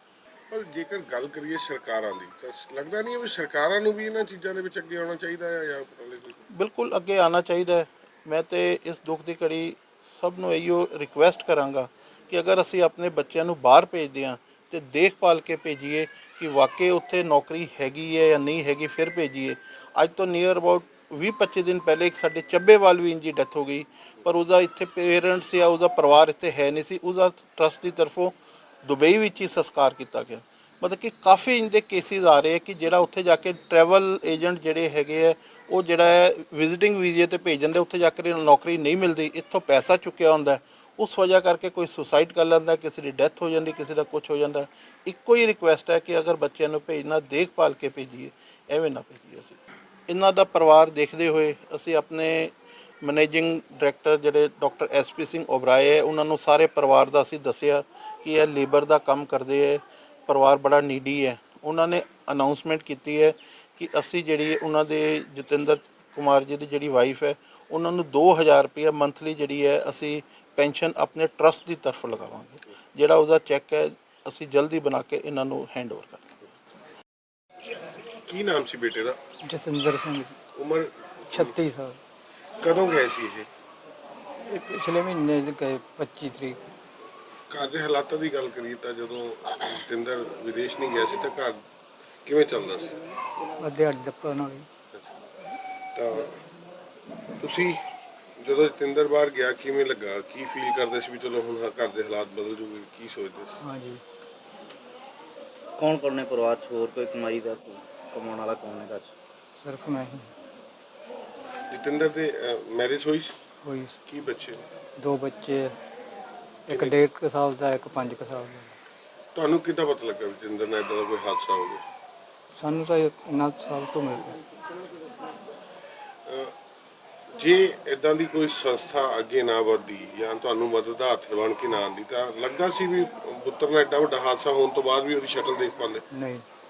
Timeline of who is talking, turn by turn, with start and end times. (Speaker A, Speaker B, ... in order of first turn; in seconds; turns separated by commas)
Speaker A: 0.5-6.4, Speaker B: 6.5-76.5, Speaker A: 78.2-79.2, Speaker C: 79.4-80.3, Speaker A: 80.5-81.5, Speaker C: 81.3-82.0, Speaker A: 82.6-83.5, Speaker C: 84.5-86.6, Speaker A: 87.5-91.6, Speaker A: 92.2-93.0, Speaker C: 93.6-94.7, Speaker A: 95.9-96.4, Speaker A: 97.4-97.8, Speaker A: 98.4-103.6, Speaker C: 103.6-104.0, Speaker D: 105.8-109.1, Speaker C: 109.6-110.3, Speaker A: 111.7-113.3, Speaker C: 113.6-114.0, Speaker A: 114.0-114.6, Speaker C: 115.0-115.8, Speaker A: 116.7-117.0, Speaker C: 116.7-118.7, Speaker A: 119.3-121.8, Speaker C: 122.5-124.4, Speaker A: 126.2-126.5, Speaker A: 127.3-136.0, Speaker C: 136.1-136.4